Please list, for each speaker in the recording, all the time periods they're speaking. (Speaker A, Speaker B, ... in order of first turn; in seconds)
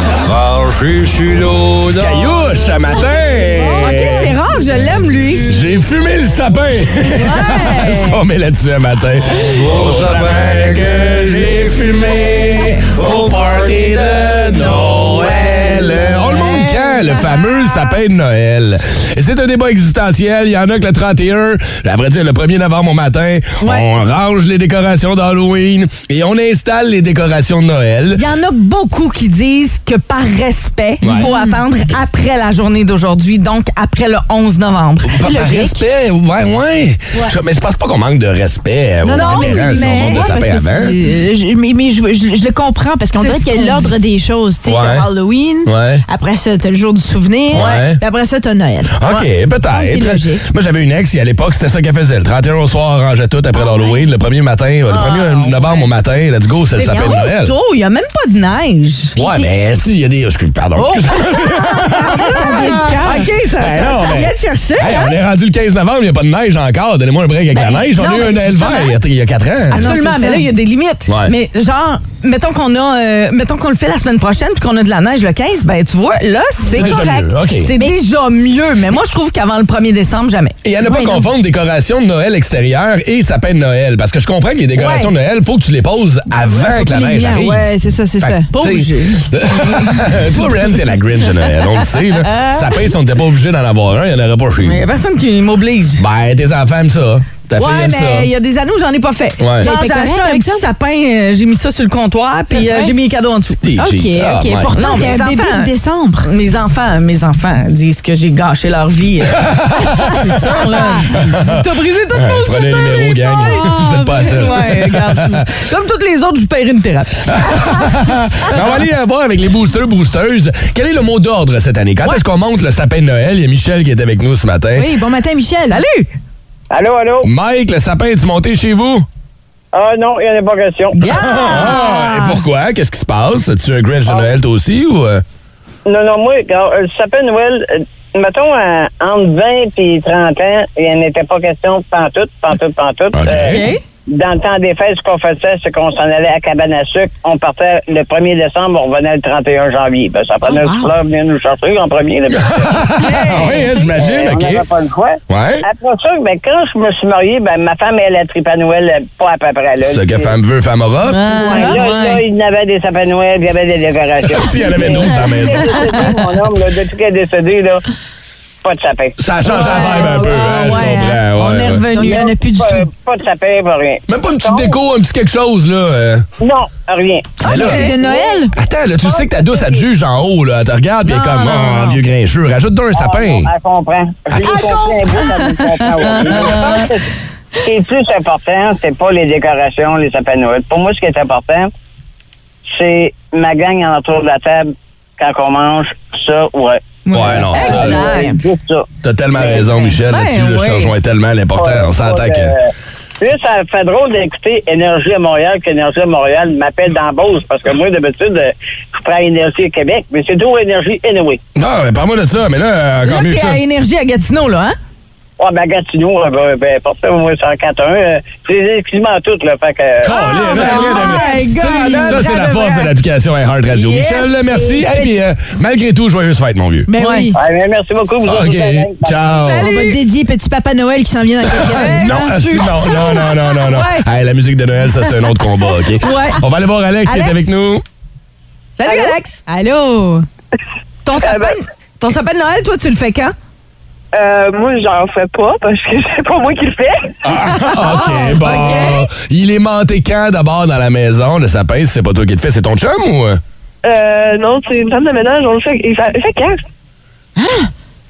Speaker A: 0.2-2.5, 9.4-16.2
Speaker B: 1.9-4.3, 5.5-28.2, 31.0-31.3, 35.0-40.9, 44.6-45.1, 45.6-46.0, 47.5-48.0, 49.0-57.5, 59.1-69.9, 71.1-71.3, 76.7-77.7, 80.6-87.7, 88.2-94.8, 96.0-98.3, 99.4-99.7, 103.6-105.1, 109.3-110.6, 111.1-115.2, 117.3-124.9, 127.2-129.1, 131.0-135.2, 143.1-143.7, 152.3-154.6, 155.3-155.6, 159.8-161.2, 164.2-166.0, 169.2-171.8, 174.1-176.2, 177.4-177.9, 178.5-183.5, 197.1-198.0, 199.0-202.5, 211.5-213.6, 220.0-226.9, 228.2-229.7, 231.5-237.8, 247.2-253.4
Speaker C: 3.6-5.5, 7.1-8.2, 16.2-17.9, 23.6-23.9, 28.1-35.8, 39.1-40.3, 43.1-43.9, 47.5-47.8, 54.9-55.8, 56.7-59.1, 60.8-65.1, 67.5-68.9, 69.7-80.5, 84.8-85.1, 88.5-90.8, 91.7-92.8, 94.6-96.0, 97.5-103.6, 104.7-105.7, 106.2-117.9, 125.7-126.1, 131.0-132.4, 143.4-143.8, 153.0-153.7, 161.1-162.2, 164.6-166.2, 169.4-172.3, 177.4-178.3, 181.1-182.0, 184.3-186.9, 197.5-198.3, 199.4-200.9, 213.0-214.8, 220.1-222.9, 223.7-225.1, 227.0-227.3, 229.4-230.0, 231.8-234.1, 236.0-236.4, 237.1-237.5, 238.8-239.4, 241.0-243.3, 247.7-249.0
Speaker D: 31.0-31.6, 39.0-50.5, 53.6-54.0, 59.1-59.5, 62.1-63.3, 69.7-70.5, 76.8-77.0, 80.8-81.3, 86.5-88.5, 99.6-100.7, 102.5-103.2, 103.8-106.3, 110.8-111.0, 113.3-114.7, 124.7-125.8, 150.5-150.9, 161.4-161.8, 169.4-171.0, 171.9-172.9, 177.4-178.5, 197.0-198.3, 220.4-222.3, 226.9-227.3, 229.6-232.4, 239.5-240.2, 257.4-257.7
Speaker E: 126.7-127.2, 129.7-130.9, 135.9-152.9, 153.9-160.3, 161.3-167.8, 168.6-169.2, 172.0-174.7, 176.4-177.4, 179.1-179.8, 182.9-187.0, 187.6-191.7, 192.7-194.7, 195.2-198.8, 199.4-199.6, 201.6-202.6, 203.2-211.4, 215.4-220.1, 227.3-229.2
Speaker F: 241.2-241.5, 244.1-247.1, 253.8-256.6